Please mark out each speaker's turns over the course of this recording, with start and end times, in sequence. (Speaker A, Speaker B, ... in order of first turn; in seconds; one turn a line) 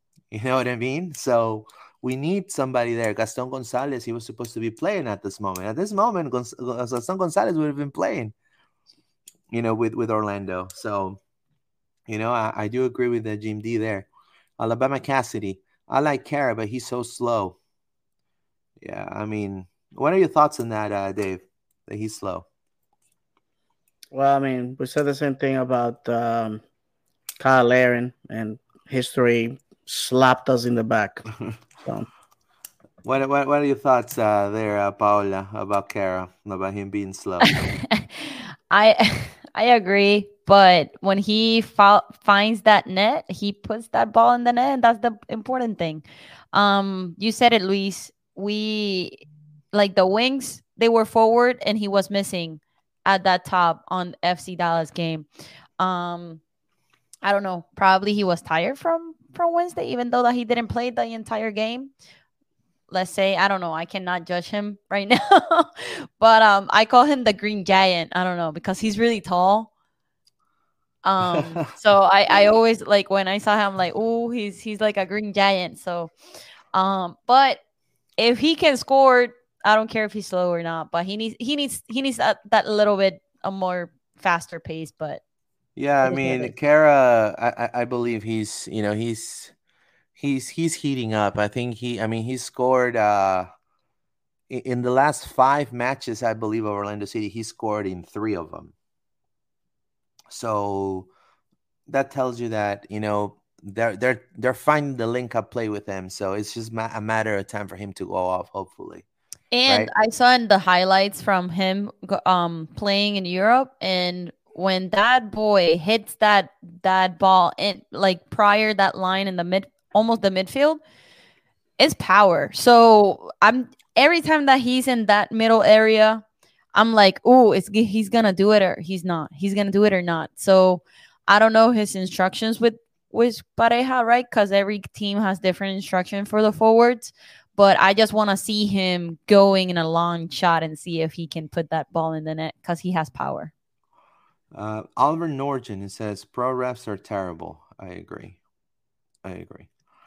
Speaker A: 0.3-8.3
Speaker A: 9.5-11.2
Speaker A: 12.1-14.1
Speaker A: 14.6-17.6
Speaker A: 18.8-22.5
Speaker B: 24.1-26.6
Speaker B: 27.4-31.2
Speaker A: 33.0-37.5
Speaker C: 37.4-49.2
Speaker C: 49.7-55.3
Speaker C: 55.8-56.4
Speaker C: 57.2-61.9
Speaker C: 62.9-69.7
Speaker C: 71.0-76.1
Speaker A: 71.2-71.7
Speaker C: 76.7-77.6
Speaker C: 78.2-85.2
Speaker A: 85.8-89.5
Speaker C: 86.0-86.5
Speaker A: 90.2-93.5
Speaker A: 94.5-98.7
Speaker A: 100.3-101.1
Speaker A: 101.9-109.0
Speaker C: 109.5-120.8
Speaker C: 121.8-126.2
Speaker C: 126.7-143.5
Speaker A: 144.5-148.4
Speaker A: 149.2-149.7